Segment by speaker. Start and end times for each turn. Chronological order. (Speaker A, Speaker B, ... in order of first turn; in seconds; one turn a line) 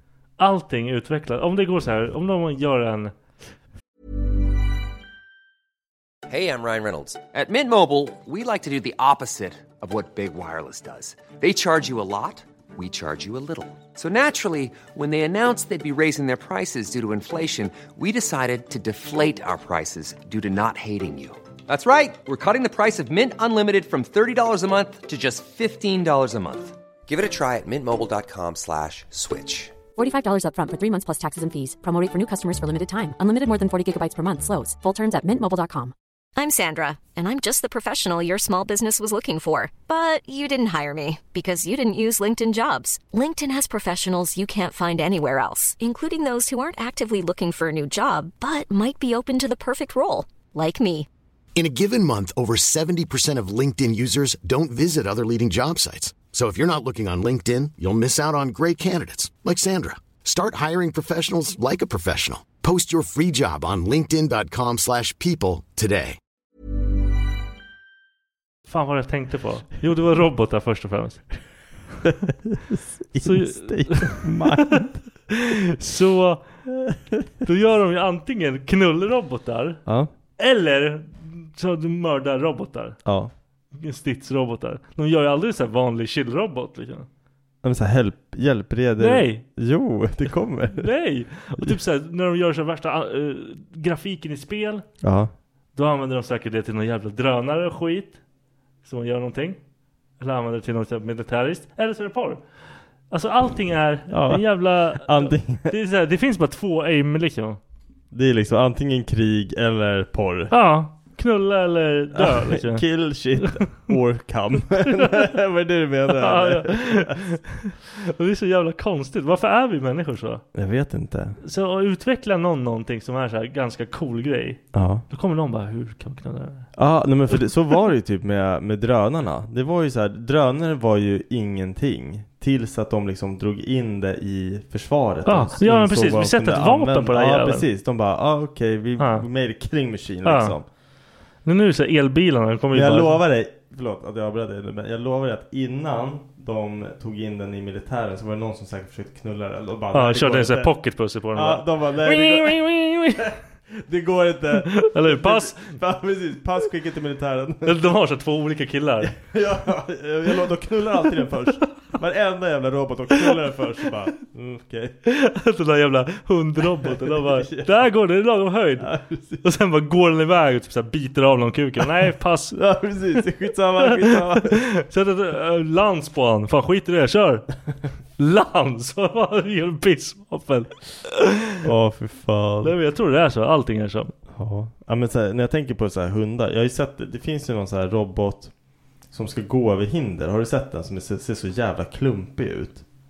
Speaker A: 0.4-3.1
Speaker B: 6.3-29.8
Speaker C: 29.9-35.9
Speaker D: 36.4-51.1
Speaker E: 51.5-66.2
Speaker A: 68.7-71.3
Speaker F: 72.0-75.0
Speaker A: 73.2-76.6
Speaker F: 76.8-77.2
Speaker A: 77.4-79.8
Speaker F: 79.8-80.1
Speaker A: 80.4-83.0
Speaker F: 83.0-83.3
Speaker A: 83.7-87.1
Speaker F: 87.6-90.9
Speaker A: 89.0-89.4
Speaker A: 90.7-94.9
Speaker F: 95.0-95.3
Speaker A: 95.7-98.2
Speaker A: 98.8-99.6
Speaker A: 100.2-102.4
Speaker A: 103.1-107.6
Speaker F: 104.1-105.7
Speaker F: 108.1-110.5
Speaker A: 110.5-112.8
Speaker F: 112.1-117.3
Speaker A: 113.4-113.9
Speaker A: 114.8-115.3
Speaker A: 116.1-120.4
Speaker F: 120.5-121.4
Speaker A: 121.4-126.7
Speaker F: 124.7-125.0
Speaker F: 126.7-140.7
Speaker A: 127.3-127.8
Speaker A: 135.2-137.7
Speaker A: 139.0-139.2
Speaker A: 140.2-140.6
Speaker A: 141.4-143.2
Speaker F: 142.7-150.8
Speaker A: 149.9-153.3
Speaker F: 151.3-152.6
Speaker F: 153.2-157.8
Speaker A: 154.6-155.7
Speaker A: 157.6-159.2
Speaker F: 159.0-165.0
Speaker A: 161.1-161.6
Speaker A: 163.1-163.9
Speaker A: 165.1-172.6
Speaker F: 166.8-167.8
Speaker F: 168.8-169.4
Speaker F: 172.5-174.6
Speaker A: 173.8-177.5
Speaker A: 178.2-181.6
Speaker F: 181.6-182.7
Speaker A: 182.6-184.1
Speaker F: 184.3-188.5
Speaker F: 189.1-192.8